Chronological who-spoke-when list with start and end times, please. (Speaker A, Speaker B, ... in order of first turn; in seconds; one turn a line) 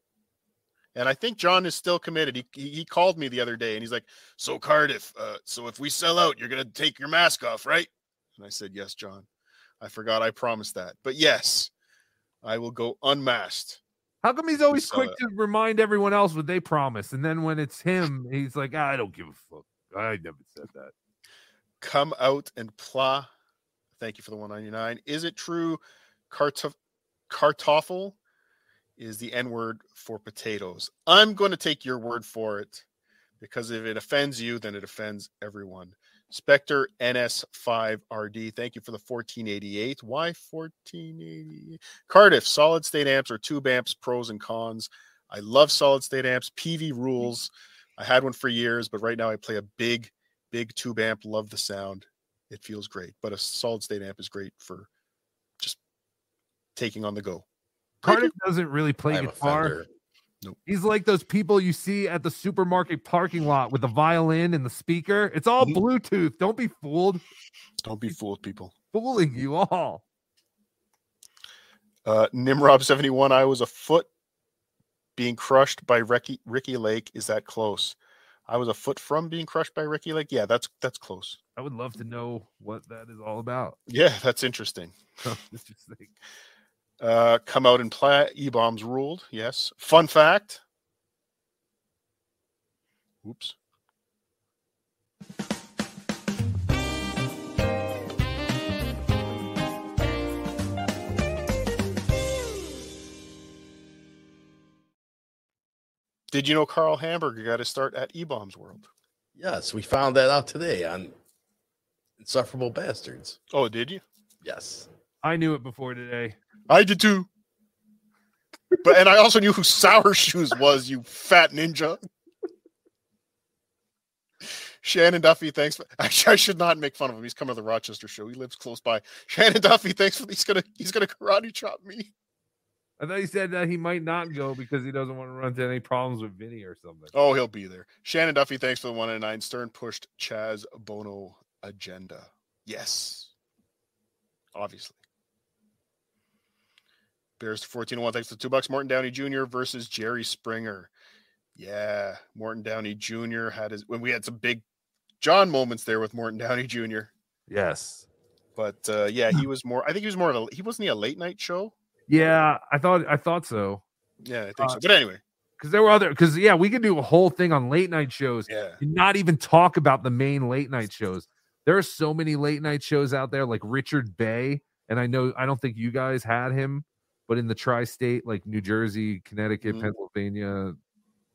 Speaker A: 0.9-9.3
Speaker A: 9.8-11.7
Speaker A: 12.4-13.8
Speaker B: 14.2-20.9
Speaker A: 14.7-15.2
Speaker A: 21.8-23.3
Speaker A: 24.0-26.7
Speaker A: 27.3-28.2
Speaker A: 29.0-32.8
Speaker A: 33.4-54.9
Speaker A: 56.8-57.4
Speaker A: 58.0-58.3
Speaker B: 58.0-59.8
Speaker C: 59.1-59.9
Speaker B: 60.6-67.2
Speaker A: 67.8-68.7
Speaker B: 68.9-70.0
Speaker A: 72.0-74.1
Speaker A: 75.2-81.4
Speaker B: 81.5-83.8
Speaker A: 83.9-85.0
Speaker B: 85.2-86.1
Speaker A: 87.0-90.6
Speaker A: 93.2-93.5
Speaker A: 106.3-108.9
Speaker C: 109.4-111.1
Speaker C: 112.2-113.4
Speaker A: 113.5-114.0
Speaker C: 114.4-114.9
Speaker B: 115.2-116.4
Speaker A: 116.7-117.3
Speaker A: 118.8-122.0
Speaker A: 124.4-132.1
Speaker B: 133.0-137.1
Speaker A: 137.1-143.3
Speaker A: 144.5-145.0
Speaker A: 147.4-150.9
Speaker A: 151.5-154.6
Speaker A: 155.2-157.1
Speaker B: 157.5-158.1
Speaker A: 158.6-162.4
Speaker B: 162.1-163.8
Speaker A: 164.2-165.2
Speaker B: 165.6-180.8
Speaker A: 168.5-168.8
Speaker A: 179.6-179.9